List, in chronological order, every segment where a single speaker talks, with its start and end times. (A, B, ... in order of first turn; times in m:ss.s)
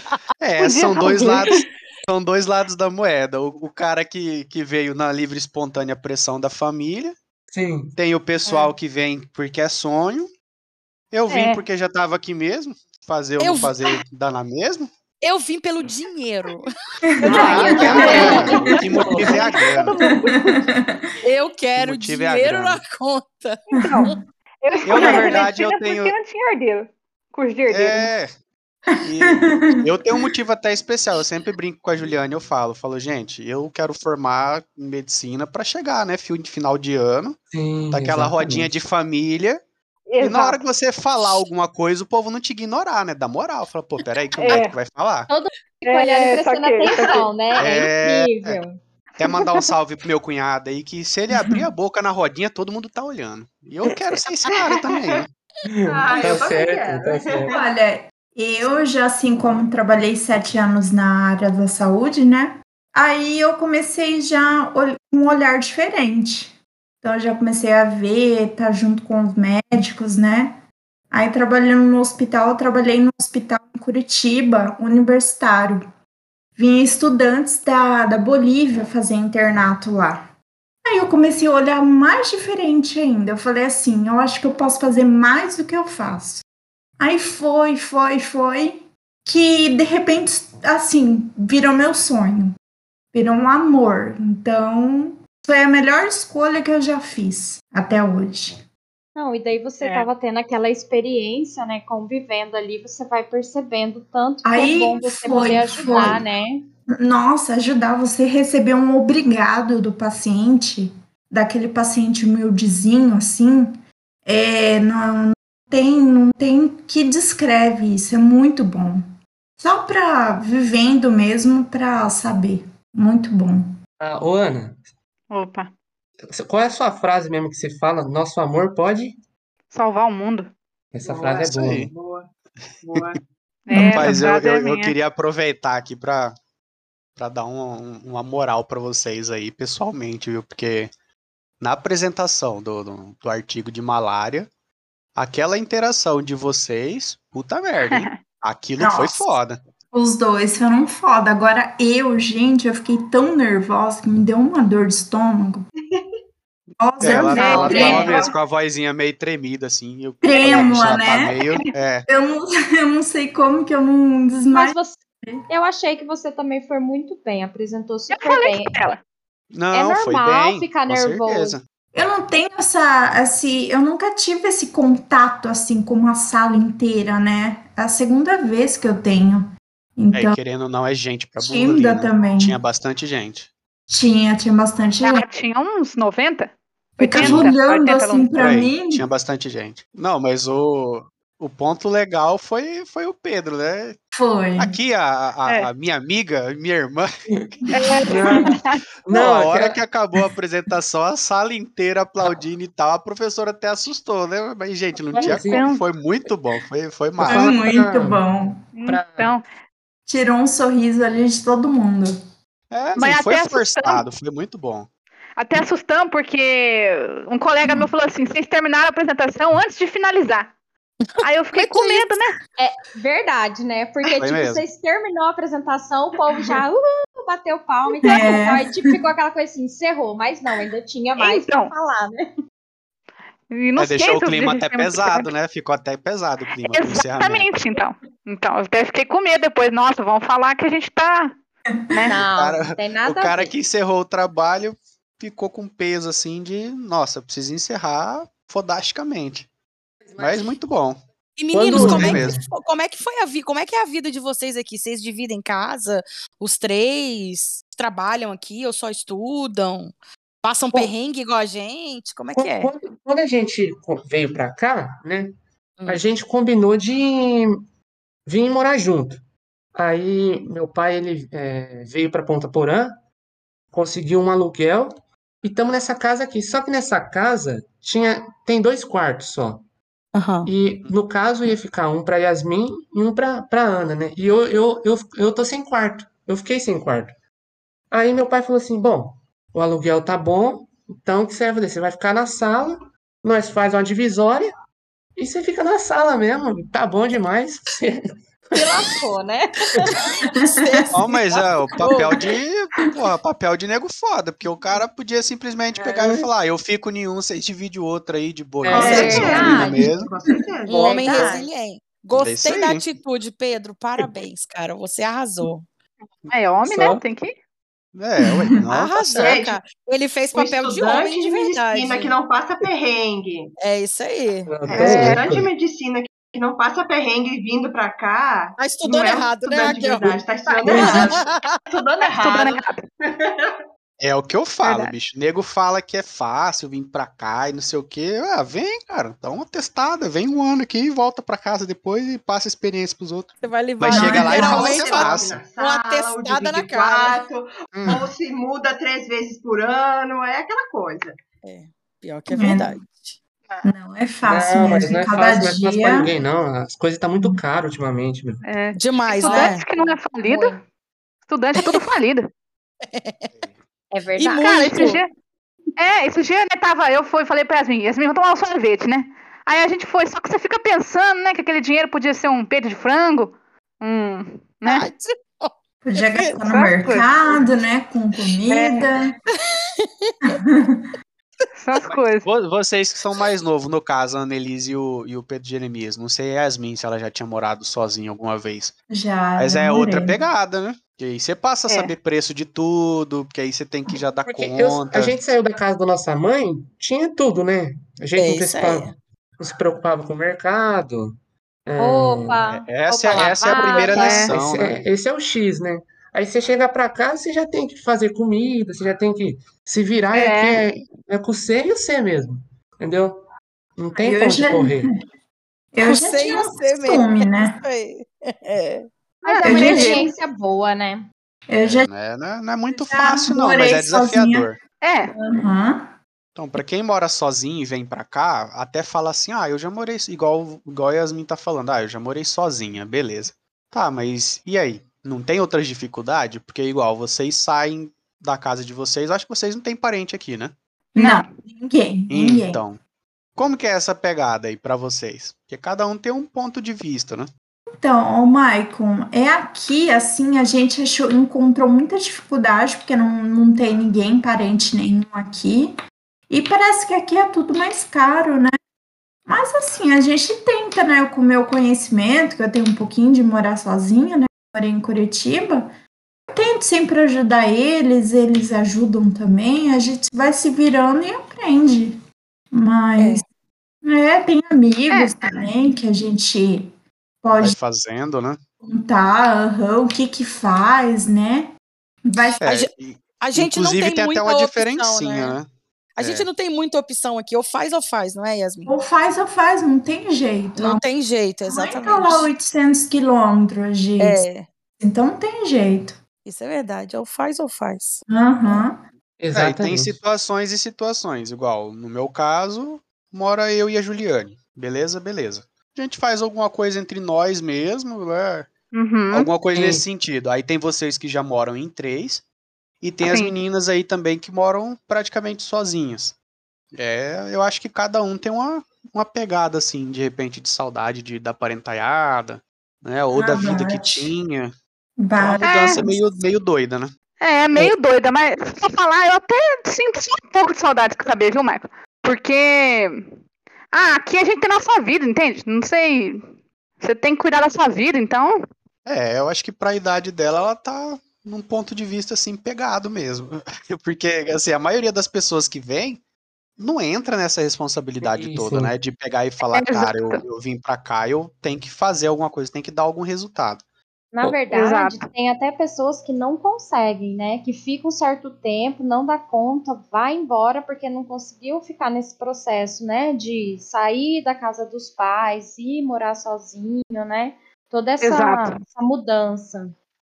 0:00.4-0:07.2 A
0:00.6-0:01.6 B
0:07.5-0:07.9 C
0:08.0-0:10.3 A
0:11.1-0:14.9 A
0:11.3-0:11.6 B
0:13.4-0:14.0 D
0:15.2-0:16.7 D
0:17.2-0:19.5 E
0:17.2-0:18.3 D
0:17.2-0:20.7 B
0:17.2-0:20.0 A
0:17.8-0:18.2 F
0:17.9-0:18.6 G
0:20.2-0:21.0 E
0:21.2-0:24.0 D
0:21.8-0:22.8 A
0:23.8-0:24.1 B
0:23.9-0:24.2 E
0:24.6-0:28.1 B
0:24.7-0:25.4 E
0:24.8-0:26.1 A
0:27.7-0:28.3 A
0:29.0-0:37.4 A
0:29.2-0:30.3 E
0:37.5-0:38.7 C
0:37.9-0:39.6 A
0:40.1-0:40.6 B
0:40.2-0:45.3 A
0:44.3-0:44.8 B
0:45.3-0:48.8 F
0:45.8-0:47.3 B
0:47.6-0:48.6 A
0:49.2-0:55.3 A
0:49.2-0:49.6 B
0:51.3-0:51.6 E
0:53.9-0:54.2 D
0:54.6-0:55.2 G
0:55.6-0:57.5 C
0:55.9-0:57.6 G
0:57.5-1:15.9 E
1:16.6-1:20.3 E
1:20.8-1:26.4 E
1:27.0-1:32.6 E
1:33.1-1:38.6 E
1:39.2-1:46.6 F
1:39.8-1:40.1 B
1:44.4-1:46.2 E
1:46.9-1:59.0 E
1:59.6-2:03.7 E
2:04.0-2:04.8 C
2:05.3-2:05.7 B
2:06.3-2:09.2 C
2:09.7-2:10.5 B
2:10.9-2:11.8 C
2:11.0-2:12.3 G
2:11.4-2:11.9 A
2:12.8-2:13.2 G
2:13.7-2:15.0 B
2:13.7-2:14.2 E
2:13.7-2:16.3 A
2:17.2-2:20.9 A
2:21.6-2:24.5 A
2:25.2-2:29.6 A
2:27.9-2:28.2 B
2:28.8-2:29.3 E
2:29.9-2:35.6 E
2:36.8-2:38.3 E
2:37.0-2:42.0 A
2:37.1-2:38.2 F
2:37.3-2:38.0 B
2:40.2-2:41.4 E
2:41.4-2:41.7 B
2:42.1-2:45.4 E
2:44.5-2:48.8 F
2:48.1-2:49.0 B
2:49.5-2:51.6 A
2:49.7-2:51.6 F
2:51.9-3:00.4 E
3:00.1-3:03.5 A
3:01.4-3:02.5 E
3:03.9-3:05.2 E
3:05.0-3:08.4 B
3:07.0-3:09.0 E
3:07.2-3:07.5 A
3:08.4-3:14.0 A
3:14.1-3:14.8 E
3:14.6-3:17.1 A
3:17.3-3:18.5 C
3:17.7-3:18.8 B
3:19.0-3:19.8 C
3:19.1-3:27.6 A
3:25.1-3:25.6 C
3:25.2-3:25.8 B
3:27.2-3:28.2 C
3:27.2-3:28.6 E
3:28.7-3:29.4 B
3:28.9-3:29.3 C
3:30.0-3:32.2 E
3:32.7-3:34.9 A
3:33.0-3:34.1 B
3:35.4-3:40.5 B
3:41.2-3:42.3 B
3:41.5-3:42.2 D
3:42.6-3:52.3 F
3:44.0-3:44.6 A
3:48.0-3:48.3 B
3:48.0-3:48.7 E
3:51.2-3:51.7 B
3:53.5-3:55.3 B
3:53.8-3:57.5 A
3:56.6-4:01.3 B
4:01.9-4:02.2 B
4:02.1-4:03.5 F
4:02.3-4:09.5 A
4:10.0-4:10.5 C
4:10.2-4:11.0 A
4:11.4-4:19.9 D
4:11.5-4:12.4 C
4:11.7-4:12.4 A
4:20.4-4:22.7 D
4:22.4-4:25.3 C
4:25.9-4:27.5 C
4:28.2-4:29.2 C
4:29.7-4:32.9 C
4:33.7-4:39.6 C
4:40.1-4:40.5 D
4:40.4-4:47.1 C
4:47.9-4:54.5 C
4:55.2-4:58.8 C
4:58.5-4:59.9 F
5:00.3-5:02.3 D
5:00.9-5:10.1 A
5:08.6-5:09.6 C
5:08.7-5:11.4 G
5:08.8-5:09.8 F
5:08.8-5:10.4 E
5:10.7-5:15.6 D
5:10.8-5:11.5 F
5:12.1-5:12.8 A
5:16.3-5:17.3 B
5:16.6-5:17.0 C
5:17.9-5:19.3 A
5:18.2-5:18.5 E
5:18.7-5:22.1 D
5:19.2-5:19.6 G
5:20.3-5:23.5 G
5:23.6-5:25.2 D
5:24.5-5:25.5 C
5:24.7-5:33.6 G
5:24.7-5:25.1 A
5:28.6-5:31.6 D
5:30.6-5:31.1 C
5:32.0-5:32.8 B
5:34.0-5:45.4 A
5:34.6-5:34.9 D
5:43.4-5:47.3 D
5:43.9-5:44.6 E
5:44.1-5:51.2 G
5:47.8-5:48.0 A
5:51.4-5:53.2 D
5:52.3-5:52.7 E
5:53.6-5:56.1 E
5:54.2-5:58.4 C
5:58.4-6:00.6 B
5:58.8-5:59.6 D
5:59.2-6:00.6 F
6:01.2-6:02.3 B
6:01.6-6:01.8 D
6:02.9-6:03.3 D
6:03.9-6:04.9 F
6:04.2-6:05.0 D
6:04.4-6:05.1 B
6:05.8-6:14.8 B
6:14.6-6:15.5 D
6:15.8-6:19.1 E
6:16.1-6:16.4 D
6:16.4-6:17.1 B
6:18.5-6:18.9 B
6:19.4-6:20.3 D
6:20.2-6:20.9 E
6:21.6-6:22.3 B
6:21.9-6:28.7 A
6:28.9-6:30.2 E
6:29.4-6:35.1 A
6:31.7-6:32.0 B
6:34.2-6:41.2 C
6:38.2-6:38.9 D
6:41.7-6:42.4 C
6:41.8-6:44.4 F
6:42.4-6:44.8 A
6:43.1-6:53.2 C
6:43.7-6:44.3 B
6:50.1-6:50.6 B
6:53.8-6:54.9 C
6:54.0-6:54.9 E
6:55.7-6:57.6 E
6:55.8-6:58.9 D
6:59.2-7:01.1 F
6:59.2-7:00.1 B
6:59.4-7:00.0 E
7:01.5-7:01.9 E
7:01.6-7:04.6 A
7:02.7-7:04.5 E
7:04.8-7:05.1 B
7:05.1-7:05.9 E
7:06.4-7:20.5 A
7:21.0-7:22.6 E
7:21.0-7:21.3 B
7:22.1-7:22.8 A
7:23.4-7:27.3 A
7:27.8-7:35.8 E
7:36.3-7:38.5 E
7:39.3-7:45.7 E
7:46.3-7:52.0 E
7:52.5-7:53.2 E
7:53.0-7:53.2 D
7:53.8-7:57.6 E
7:54.9-7:55.5 B
7:57.4-7:58.4 A
7:58.6-8:01.5 E
8:02.0-8:02.4 E
8:02.4-8:05.5 A
8:02.4-8:05.4 D
8:06.0-8:08.7 D
8:06.0-8:06.3 A
8:08.6-8:10.8 E
8:10.6-8:12.3 D
8:11.4-8:14.2 E
8:14.0-8:14.5 D
8:14.8-8:16.0 E
8:16.2-8:18.0 D
8:18.1-8:18.8 E
8:19.2-8:20.0 C
8:19.3-8:28.5 A
8:28.7-8:29.4 B
8:29.1-8:32.2 A
8:29.4-8:29.8 C
8:32.8-8:36.1 A
8:33.0-8:33.3 B
8:36.7-8:44.5 A
8:43.1-8:44.1 E
8:45.0-8:46.0 E
8:45.2-8:46.9 A
8:45.4-8:45.8 B
8:47.2-8:53.2 B
8:53.7-8:56.3 B
8:56.8-8:58.4 B
8:58.8-9:06.0 A
9:06.6-9:13.6 A
9:08.0-9:08.7 C
9:09.5-9:10.2 B
9:14.1-9:29.7 F
9:14.5-9:15.0 B
9:28.0-9:28.6 B